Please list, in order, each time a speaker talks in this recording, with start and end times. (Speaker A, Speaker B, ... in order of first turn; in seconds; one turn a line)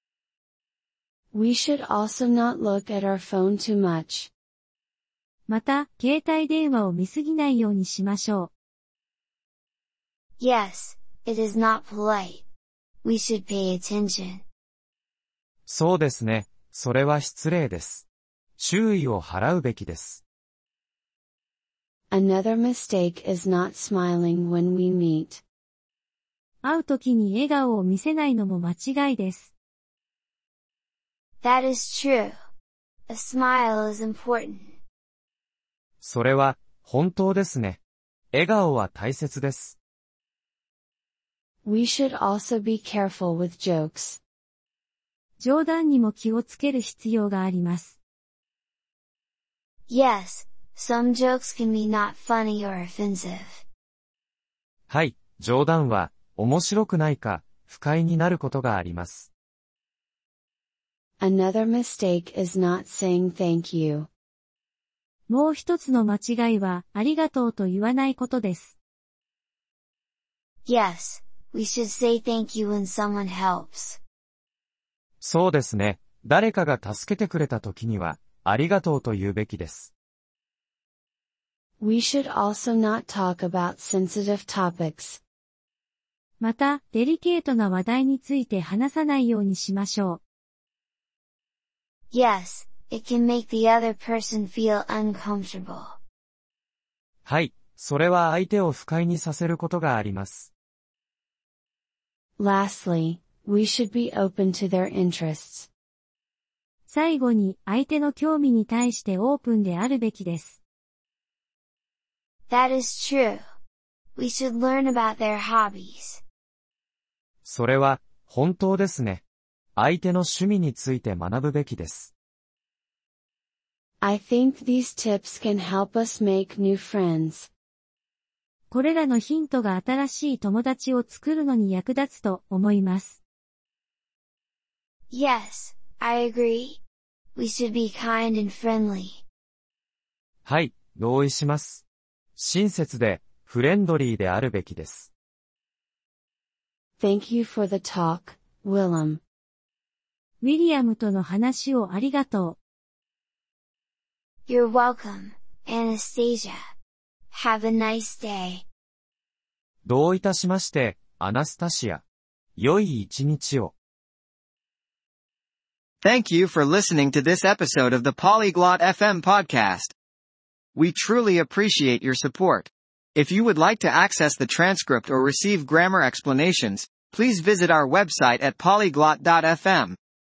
Speaker A: 1.3-4.3
Speaker B: 5.5-8.5
Speaker C: 10.4-12.4
Speaker C: 13.0-14.4
Speaker D: 15.7-18.1
Speaker D: 18.6-20.2
Speaker A: 22.1-25.4
Speaker B: 26.6-29.5
Speaker C: 31.4-32.4
Speaker C: 33.1-34.7
Speaker D: 36.0-37.8
Speaker D: 38.3-39.8
Speaker A: 41.6-44.2
Speaker B: 45.4-48.0
Speaker C: 49.9-53.6
Speaker D: 54.9-59.3
Speaker A: 61.2-64.1
Speaker B: 65.3-68.8
Speaker C: 70.7-74.0
Speaker D: 75.2-79.9
Speaker A: 81.8-85.2
Speaker B: 86.4-90.2
Speaker C: 92.1-96.0
Speaker D: 97.2-100.5
Speaker A: 102.4-105.7
Speaker B: 106.9-110.6
Speaker C: 112.5-113.4
Speaker C: 114.2-116.2
Speaker D: 117.5-119.2
Speaker D: 119.8-122.1
Speaker A: 124.0-127.5
Speaker B: 128.7-133.2
Speaker C: 135.1-136.8
Speaker C: 137.4-139.2
Speaker D: 140.4-141.8
Speaker D: 142.4-145.1
Speaker A: 147.0-149.2
Speaker B: 150.4-152.6
Speaker C: 154.5-156.6
Speaker C: 157.3-158.6
Speaker D: 159.8-162.0
Speaker D: 162.6-163.7
Speaker E: 166.0-169.9
Speaker E: 170.8-180.0